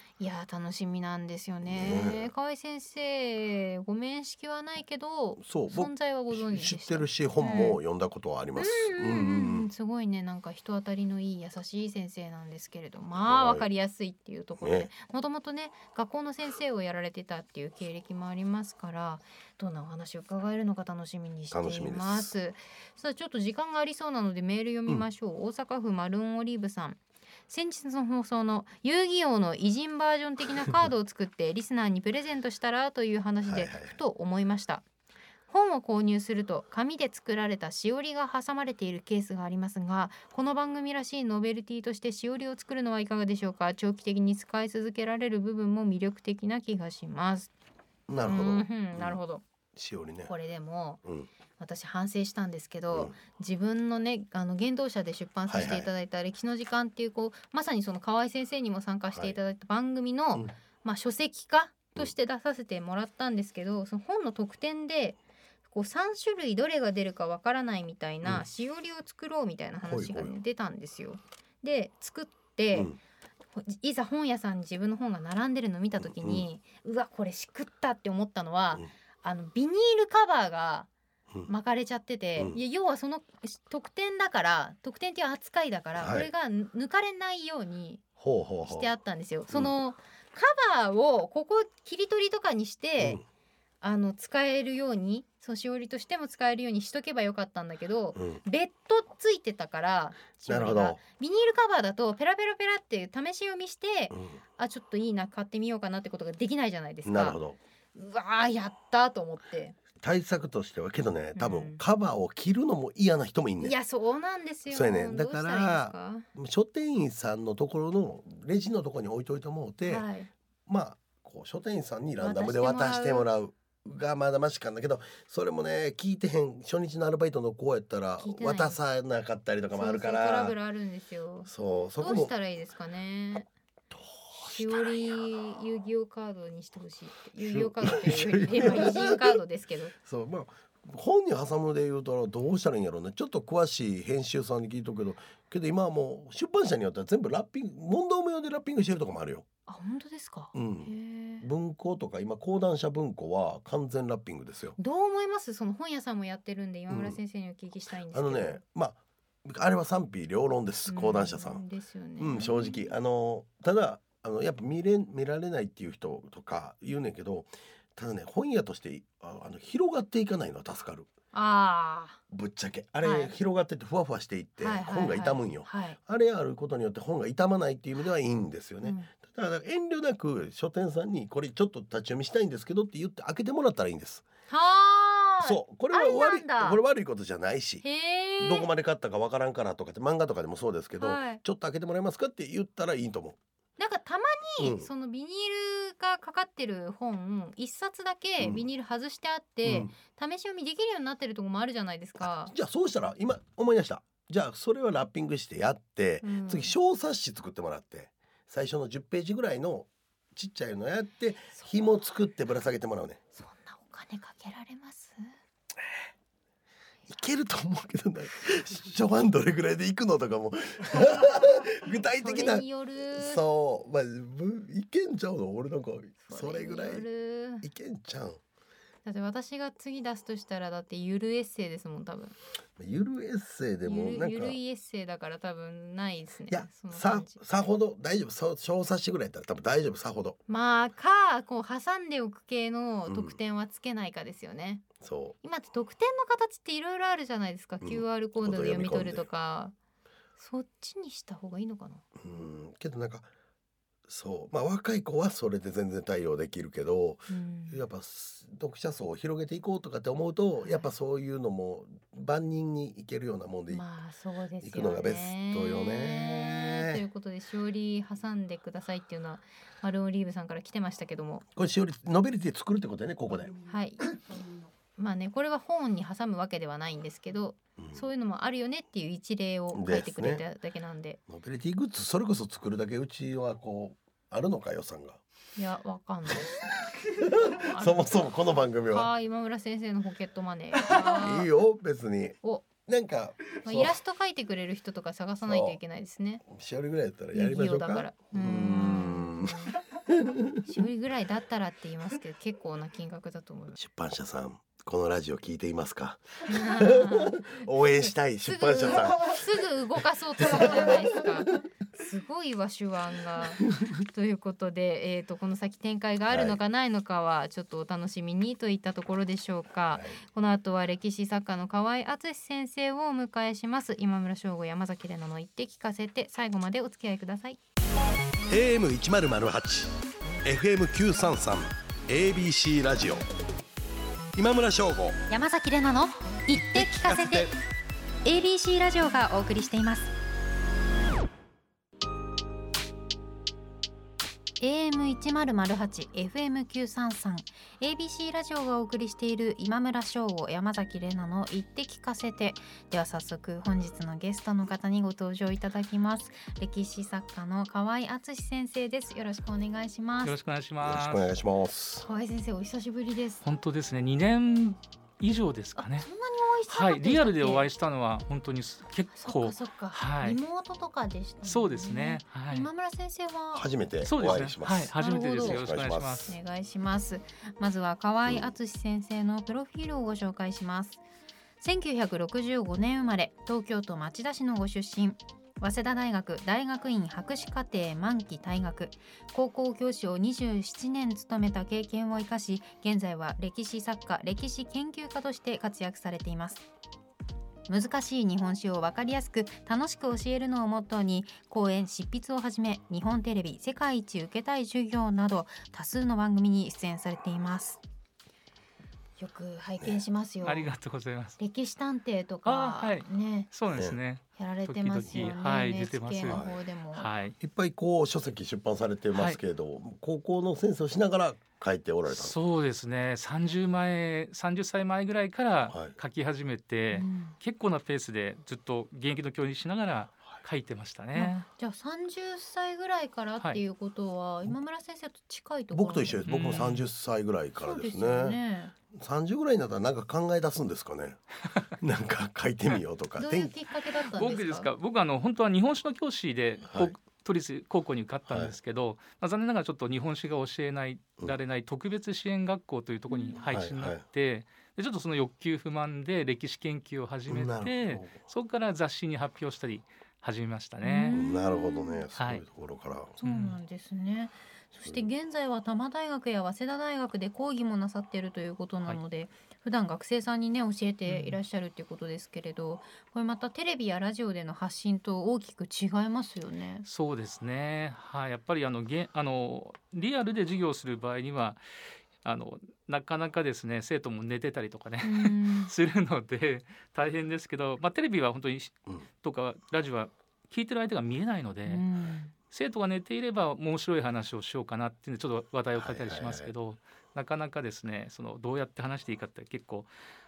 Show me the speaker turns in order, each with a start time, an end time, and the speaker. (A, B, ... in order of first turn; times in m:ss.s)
0:00.2-0:07.8 A
0:01.6-0:02.3 B
0:05.4-0:09.7 B
0:08.6-0:34.8 A
0:13.2-0:13.6 B
0:14.6-0:14.9 B
0:21.5-0:22.3 B
0:33.4-0:34.0 B
0:35.5-0:47.5 A
0:48.1-0:49.2 B
0:48.2-0:49.4 A
0:49.7-0:50.3 B
0:50.3-0:51.0 A
0:51.0-0:51.3 B
0:51.6-1:12.9 A
0:52.9-0:53.2 B
0:55.5-0:55.9 B
0:59.1-0:59.4 B
1:09.8-1:10.4 B
1:13.6-1:20.9 A
1:16.0-1:16.4 B
1:21.5-1:28.0 A
1:26.0-1:26.3 B
1:28.2-1:28.9 B
1:28.6-1:33.2 A
1:33.8-1:47.4 A
1:38.1-1:38.4 B
1:40.4-1:41.0 B
1:44.1-1:44.4 B
1:47.0-1:47.6 B
1:47.9-1:49.8 A
1:50.0-1:53.7 B
1:51.4-1:51.8 A
1:53.6-1:56.2 A
1:54.7-2:00.0 B
1:59.8-2:00.3 A
2:00.7-2:10.5 B
2:02.2-2:03.3 A
2:08.2-2:08.8 A
2:09.7-2:13.5 A
2:11.5-2:12.3 B
2:13.9-2:15.0 B
2:14.4-2:19.9 A
2:17.4-2:19.4 B
2:20.0-2:29.4 B
2:29.7-2:31.5 A
2:30.5-2:34.8 B
2:34.8-2:38.6 A
2:36.9-2:37.2 B
2:38.1-2:41.6 B
2:40.9-2:42.9 A
2:42.2-2:51.1 B
2:51.3-2:52.2 A
2:52.3-3:04.2 B
2:53.0-2:53.3 A
2:54.6-2:56.0 A
2:58.8-2:59.1 A
3:04.5-3:06.8 A
3:05.4-3:07.8 B
3:07.8-3:08.7 A
3:08.4-3:13.4 B
3:11.0-3:11.4 A
3:13.8-3:22.5 A
3:14.6-3:14.9 B
3:18.4-3:18.6 B
3:19.6-3:19.9 B
3:22.2-3:33.2 B
3:26.2-3:26.7 A
3:33.4-3:35.2 A
3:37.1-3:47.0 B
3:42.2-3:43.4 A
3:46.2-3:47.7 A
3:47.6-3:48.4 B
3:49.0-3:52.3 A
3:52.8-3:54.6 B
3:53.8-3:57.4 A
3:56.5-4:00.4 B
4:00.5-4:04.8 A
4:03.1-4:03.4 B
4:05.0-4:05.3 B
4:05.4-4:09.7 A
4:07.8-4:09.2 B
4:10.4-4:12.0 A
4:12.2-4:13.3 B
4:14.1-4:23.8 B
4:17.3-4:17.8 A
4:23.7-4:31.4 A
4:24.6-4:27.0 B
4:31.5-4:34.3 B
4:33.6-4:34.0 A
4:35.0-4:41.2 A
4:37.8-4:38.0 B
4:39.7-4:40.4 B
4:41.3-4:45.2 B
4:45.6-4:46.6 A
4:47.0-4:49.1 B
4:47.3-4:48.2 A
4:48.8-4:51.5 A
4:50.7-4:54.0 B
4:52.4-4:52.7 A
4:53.6-4:56.4 A
4:55.4-4:55.8 B
4:56.4-5:00.6 B
4:57.3-4:59.8 A
5:00.6-5:03.8 A
5:03.8-5:09.5 B
5:06.5-5:27.6 A
5:10.4-5:11.3 B
5:16.3-5:16.6 B
5:19.9-5:20.2 B
5:28.5-5:33.2 B
5:34.3-5:35.2 B
5:35.3-5:37.5 A
5:36.7-5:37.5 B
5:38.2-5:40.1 A
5:44.6-6:00.3 A
6:00.2-6:01.3 C
6:00.8-6:02.0 B
6:02.0-6:03.4 A
6:03.4-6:06.1 C
6:05.8-6:07.7 A
6:06.7-6:10.4 C
6:09.2-6:13.7 A
6:11.4-6:12.7 C
6:13.5-6:16.3 B
6:14.0-6:16.4 C
6:15.0-6:15.6 A
6:16.3-6:21.0 A
6:18.2-6:18.5 B
6:21.6-6:36.6 A
6:37.7-6:47.8 A
6:49.2-6:50.7 A
6:50.4-6:51.4 C
6:51.4-6:53.5 A
6:52.4-6:56.4 C
6:54.4-6:57.1 A
6:56.2-6:56.6 B
6:56.9-6:57.4 C
6:57.4-7:02.3 B
6:59.1-6:59.4 C
7:02.1-7:11.4 C
7:05.7-7:05.9 B
7:06.9-7:07.3 A
7:11.1-7:16.3 A
7:15.7-7:18.4 B
7:16.2-7:16.8 C
7:17.6-7:18.7 A
7:18.9-7:21.2 B
7:21.8-7:23.5 B
7:23.2-7:24.7 A
7:24.1-7:41.2 C
7:26.7-7:26.9 B
7:28.3-7:28.5 B
7:33.1-7:33.4 A
7:33.4-7:34.0 B
7:37.3-7:38.2 B
7:40.8-7:42.0 A
7:41.1-7:43.2 B
7:42.2-7:42.4 C
7:43.2-7:56.8 A
7:43.2-7:43.6 C
7:51.0-7:51.4 C
7:56.8-8:01.6 C
8:02.2-8:11.8 C
8:05.0-8:05.7 A
8:11.7-8:12.3 A
8:12.5-8:19.9 C
8:15.8-8:16.5 B